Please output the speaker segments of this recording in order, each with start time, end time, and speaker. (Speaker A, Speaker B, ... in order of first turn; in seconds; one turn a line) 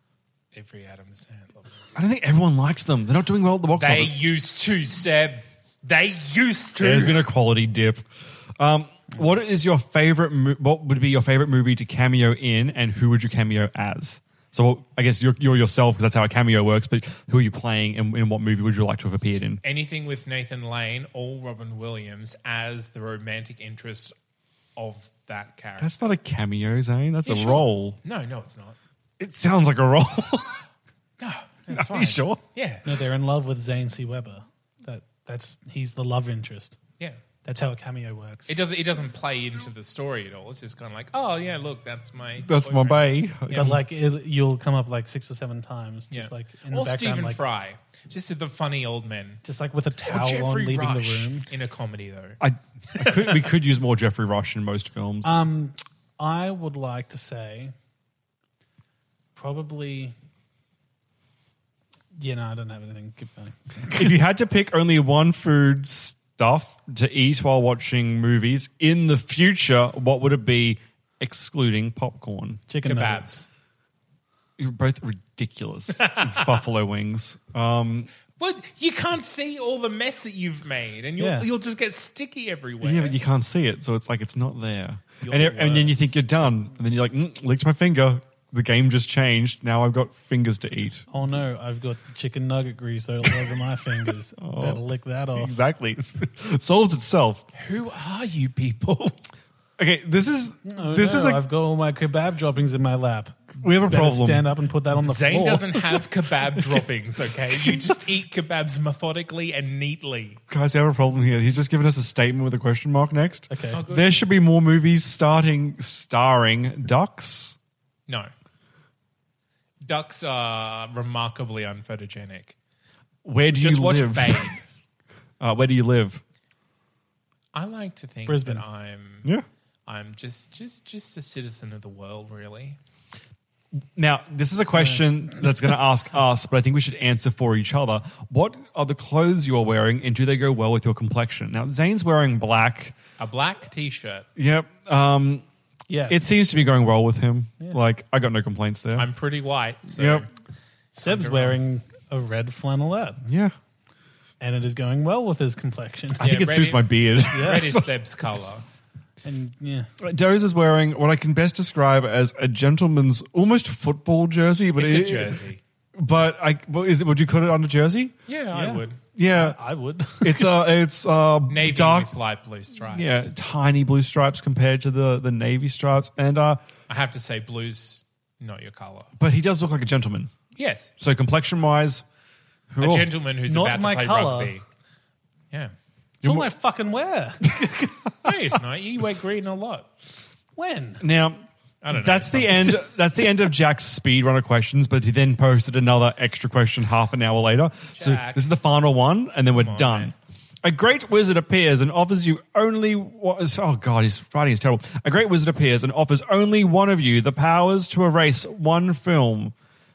Speaker A: 0.5-1.9
Speaker B: 1.9-4.1
Speaker A: 3.8-7.3
Speaker B: 6.8-19.6
Speaker A: 19.6-24.1
Speaker A: 24.8-25.9
Speaker B: 25.8-28.0
Speaker A: 27.2-28.8
Speaker B: 29.2-30.6
Speaker A: 31.2-32.9
Speaker B: 31.7-32.4
Speaker C: 32.9-36.8
Speaker C: 37.5-38.6
Speaker A: 38.5-43.7
Speaker B: 42.5-43.8
Speaker C: 43.5-47.4
Speaker A: 46.1-49.4
Speaker C: 49.4-51.5
Speaker A: 50.0-52.4
Speaker B: 52.4-55.3
Speaker A: 53.0-53.4
Speaker C: 55.2-57.7
Speaker C: 59.4-60.1
Speaker C: 62.2-64.2
Speaker B: 63.9-72.6
Speaker C: 72.7-73.3
Speaker A: 72.8-73.5
Speaker B: 74.6-78.1
Speaker A: 76.0-76.6
Speaker A: 78.4-83.2
Speaker C: 81.2-81.5
Speaker B: 82.8-91.0
Speaker A: 85.2-86.2
Speaker C: 91.1-95.6
Speaker B: 94.4-94.8
Speaker B: 95.4-97.5
Speaker A: 97.5-99.2
Speaker B: 99.8-101.4
Speaker C: 100.7-105.9
Speaker B: 103.6-104.5
Speaker A: 105.0-110.4
Speaker B: 107.5-107.9
Speaker B: 110.5-117.6
Speaker C: 113.5-113.8
Speaker A: 113.7-114.2
Speaker A: 119.8-122.6
Speaker B: 123.2-124.5
Speaker A: 123.5-124.6
Speaker B: 125.4-126.2
Speaker A: 127.5-129.3
Speaker C: 128.3-128.6
Speaker A: 129.9-132.8
Speaker B: 134.0-143.0
Speaker A: 143.2-144.3
Speaker B: 144.4-145.4
Speaker C: 145.9-146.3
Speaker B: 146.1-149.1
Speaker A: 149.0-150.3
Speaker B: 149.9-150.3
Speaker C: 150.9-153.2
Speaker A: 151.0-151.6
Speaker B: 153.2-153.5
Speaker C: 154.4-156.2
Speaker B: 156.2-157.9
Speaker A: 156.2-158.6
Speaker C: 157.3-157.8
Speaker C: 159.2-159.9
Speaker B: 160.0-165.4
Speaker A: 164.8-165.6
Speaker B: 165.9-168.1
Speaker A: 168.3-169.0
Speaker C: 168.5-170.6
Speaker B: 169.2-169.6
Speaker B: 170.2-172.1
Speaker A: 171.5-173.3
Speaker B: 172.9-176.6
Speaker A: 176.9-179.1
Speaker B: 179.2-180.3
Speaker A: 180.6-180.9
Speaker B: 181.0-182.0
Speaker B: 182.7-183.1
Speaker A: 182.8-184.7
Speaker C: 183.5-184.5
Speaker C: 186.2-187.9
Speaker B: 186.2-186.5
Speaker A: 188.2-189.9
Speaker C: 190.6-191.0
Speaker B: 191.0-209.5
Speaker A: 191.8-192.9
Speaker A: 197.9-198.5
Speaker A: 199.5-200.1